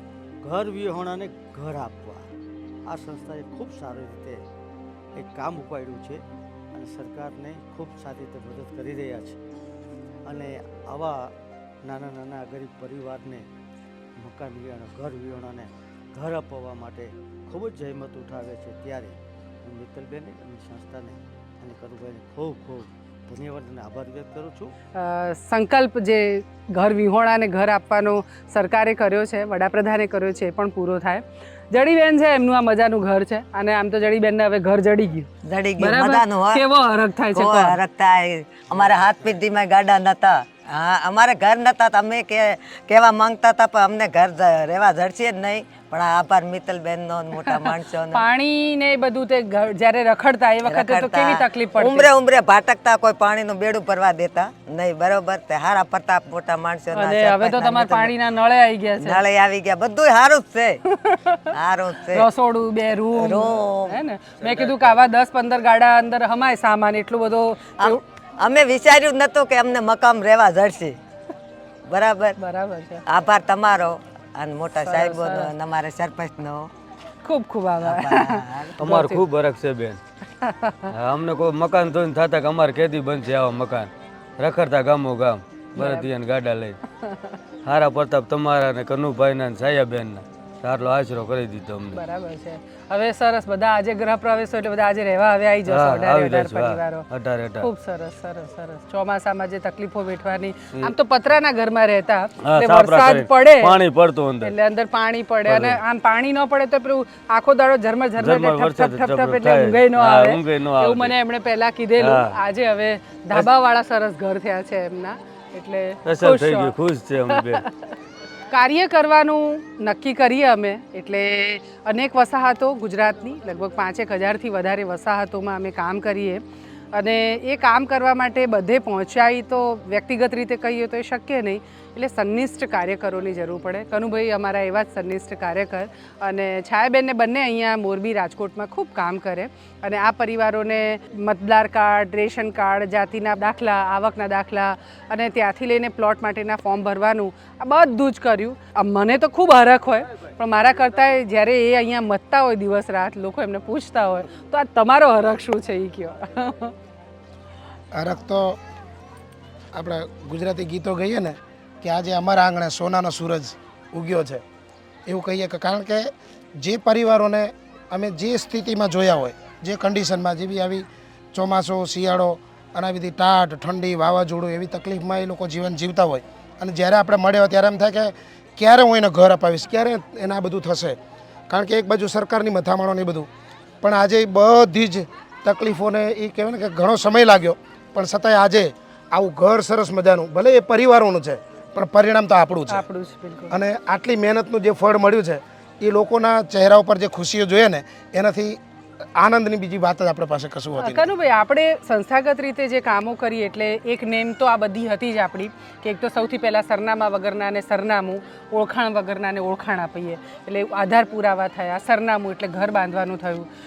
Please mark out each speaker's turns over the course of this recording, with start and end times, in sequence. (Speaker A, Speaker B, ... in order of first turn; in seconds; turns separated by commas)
Speaker A: 0.4-2.2, Speaker A: 2.9-4.4, Speaker A: 5.2-6.2, Speaker A: 6.8-9.4, Speaker A: 10.3-11.3, Speaker A: 11.8-13.5, Speaker A: 14.2-24.7, Speaker B: 25.0-37.8, Speaker C: 35.4-36.6, Speaker C: 37.3-48.2, Speaker B: 47.5-52.1, Speaker C: 50.6-58.1, Speaker B: 56.9-59.2, Speaker C: 58.9-60.8, Speaker B: 61.0-61.5, Speaker C: 61.5-62.3, Speaker B: 62.1-68.0, Speaker C: 63.1-64.0, Speaker D: 64.5-64.7, Speaker C: 67.8-71.0, Speaker C: 71.9-72.4, Speaker B: 72.4-73.0, Speaker C: 73.1-76.7, Speaker B: 74.8-75.5, Speaker B: 77.2-79.2, Speaker C: 77.8-78.8, Speaker D: 78.8-80.0, Speaker B: 80.4-80.9, Speaker D: 80.9-86.8, Speaker B: 85.8-86.1, Speaker B: 87.0-87.4, Speaker D: 87.7-92.0, Speaker B: 91.9-97.1, Speaker D: 95.7-97.7, Speaker B: 97.6-103.8, Speaker D: 102.4-104.5, Speaker B: 104.4-116.8, Speaker D: 105.5-105.8, Speaker D: 108.2-111.1, Speaker D: 112.0-112.3, Speaker D: 116.0-117.6, Speaker B: 117.4-117.7, Speaker B: 118.5-156.7, Speaker E: 157.9-158.6, Speaker E: 159.7-164.4, Speaker E: 165.1-181.0, Speaker E: 181.5-183.3, Speaker E: 183.8-192.8, Speaker B: 192.7-193.6, Speaker E: 193.5-198.6, Speaker E: 199.2-201.1, Speaker B: 200.8-213.5